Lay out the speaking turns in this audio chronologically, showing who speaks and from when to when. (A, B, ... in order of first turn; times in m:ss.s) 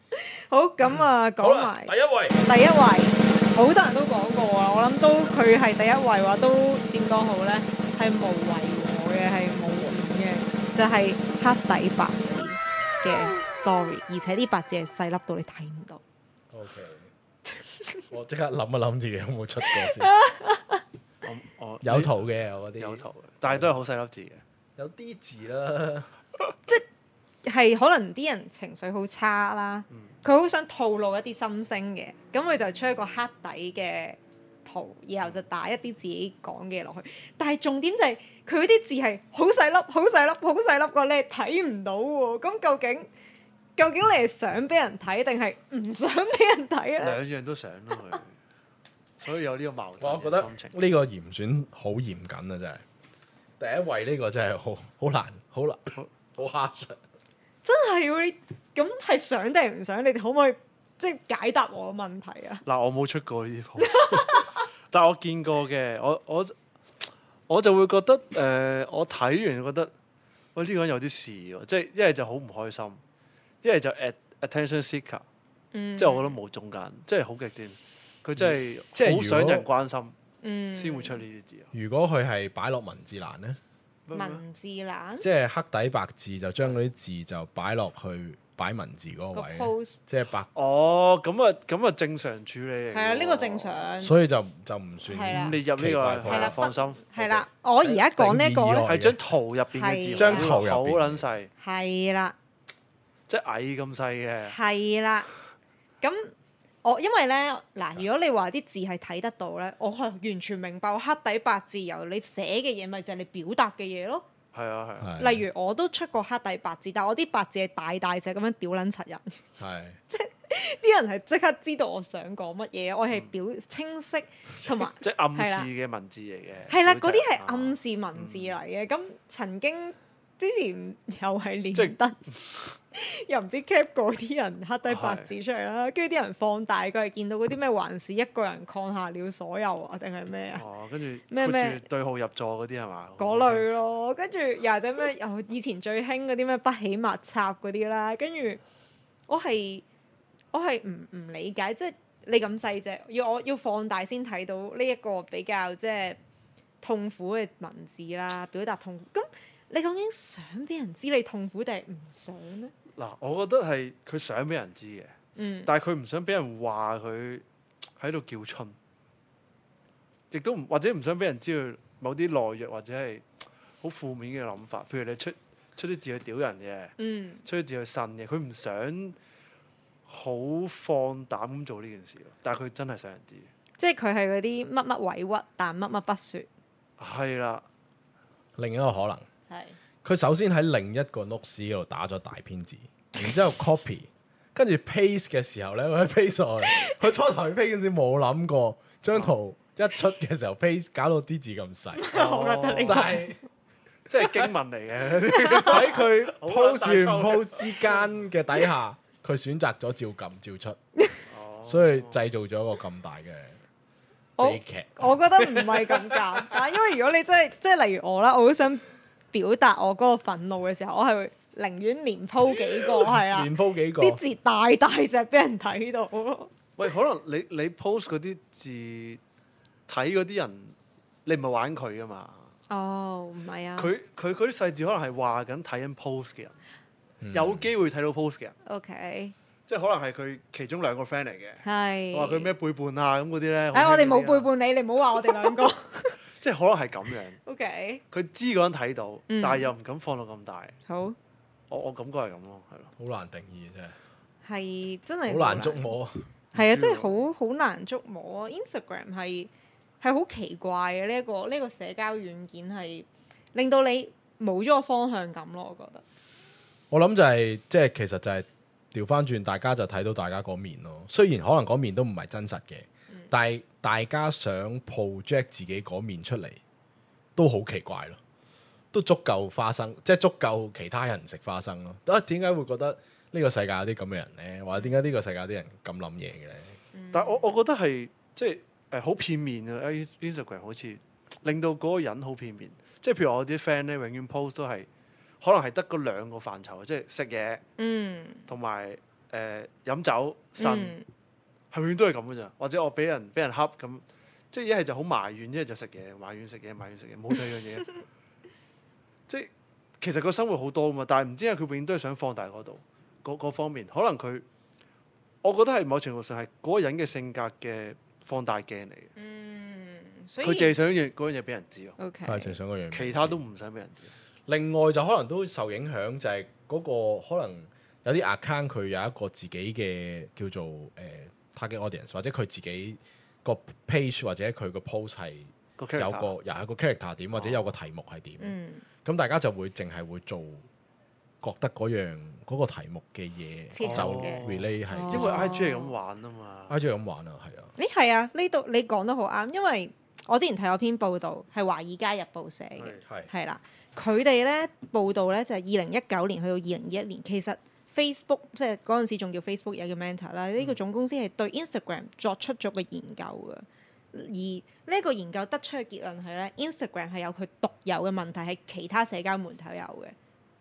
0:00.1-0:16.0 A
0:01.4-0:02.4 B
0:16.5-0:17.1 B
0:17.5-0:18.1 A
0:18.1-0:20.1 B
0:19.7-0:20.8 A
0:21.2-0:22.2 C
0:21.8-0:23.7 B
0:22.8-0:24.4 C
0:24.8-0:26.1 B
0:27.4-0:43.1 A
0:43.8-0:47.2 A
0:47.0-0:48.4 C
0:49.2-0:50.8 C
0:50.0-0:52.8 B
0:53.6-0:57.0 B
0:57.6-1:02.6 A
1:02.6-1:09.9 C
1:03.9-1:04.6 A
1:10.5-1:13.0 C
1:13.6-1:15.2 C
1:15.7-1:16.4 A
1:16.0-1:20.1 C
1:18.4-1:19.7 B
1:20.4-1:21.2 A
1:20.7-1:21.7 C
1:21.7-1:23.6 B
1:24.1-1:24.4 C
1:24.1-1:25.3 A
1:25.2-1:30.5 B
1:29.3-1:30.0 A
1:30.5-1:33.8 C
1:32.9-1:34.1 A
1:34.0-1:36.6 B
1:35.0-1:35.6 A
1:35.3-1:37.4 C
1:36.2-1:38.9 A
1:37.8-1:39.2 B
1:38.8-1:41.5 C
1:39.7-1:40.5 A
1:40.2-1:41.3 B
1:41.6-1:42.3 A
1:43.3-1:44.6 C
1:44.4-1:45.3 A
1:46.0-1:46.3 A
1:46.8-1:54.2 A
1:54.5-1:55.1 C
1:55.0-1:55.4 B
1:55.2-1:59.4 A
1:59.6-2:00.0 B
2:00.1-2:05.7 A
2:05.0-2:08.6 C
2:06.7-2:20.6 A
2:14.8-2:15.3 C
2:20.5-2:23.7 C
2:21.3-2:21.8 A
2:23.2-2:28.6 A
2:29.3-2:29.8 A
2:30.5-2:36.2 A
2:36.8-2:42.7 A
2:42.9-2:45.2 C
2:45.4-2:45.7 A
2:45.7-2:47.4 C
2:48.0-2:48.8 C
2:50.3-2:59.2 C
2:57.0-2:57.4 A
3:00.1-3:03.5 C
3:03.8-3:06.5 A
3:07.0-3:07.6 C
3:08.6-3:09.2 B
3:09.5-3:09.8 A
3:10.0-3:22.2 B
3:16.6-3:17.0 A
3:21.9-3:23.3 A
3:22.1-3:23.2 C
3:22.8-3:23.4 B
3:24.1-3:28.1 C
3:25.4-3:30.8 B
3:25.5-3:25.8 A
3:31.2-3:32.2 C
3:31.6-3:33.6 B
3:34.4-3:46.5 A
3:34.4-3:36.4 B
3:42.8-3:44.2 B
3:46.8-3:49.2 C
3:49.9-3:50.7 C
3:51.2-3:52.4 C
3:52.7-3:53.9 A
3:53.8-3:56.6 C
3:57.2-3:57.7 B
3:57.3-3:58.5 C
3:58.6-3:59.3 A
3:59.7-4:04.5 C
4:01.6-4:02.5 A
4:03.7-4:06.2 A
4:06.4-4:07.4 C
4:07.4-4:08.0 A
4:08.1-4:10.8 C
4:09.3-4:09.7 A
4:10.9-4:11.2 A
4:11.7-4:12.9 C
4:13.0-4:14.0 B
4:14.4-4:15.9 A
4:15.2-4:16.3 B
4:16.5-4:17.3 C
4:16.5-4:26.0 A
4:26.9-4:36.6 B
4:37.4-4:38.2 B
4:38.9-4:46.8 B
4:46.9-4:47.5 A
4:47.1-4:54.9 C
4:55.4-4:57.6 C
4:57.8-4:58.5 A
4:58.5-5:01.0 C
5:00.6-5:01.0 A
5:01.7-5:08.0 C
5:09.3-5:14.4 C
5:15.4-5:19.1 C
5:19.2-5:20.7 A
5:20.4-5:22.0 C
5:22.0-5:22.6 A
5:22.2-5:23.4 B
5:22.9-5:24.1 C
5:24.5-5:40.7 B
5:35.8-5:36.3 C
5:37.3-5:37.6 C
5:38.4-5:38.8 A
5:41.4-5:45.6 B
5:43.7-5:45.9 A
5:43.8-5:46.8 C
5:46.7-5:47.7 B
5:47.8-6:10.1 A
5:52.8-5:53.0 C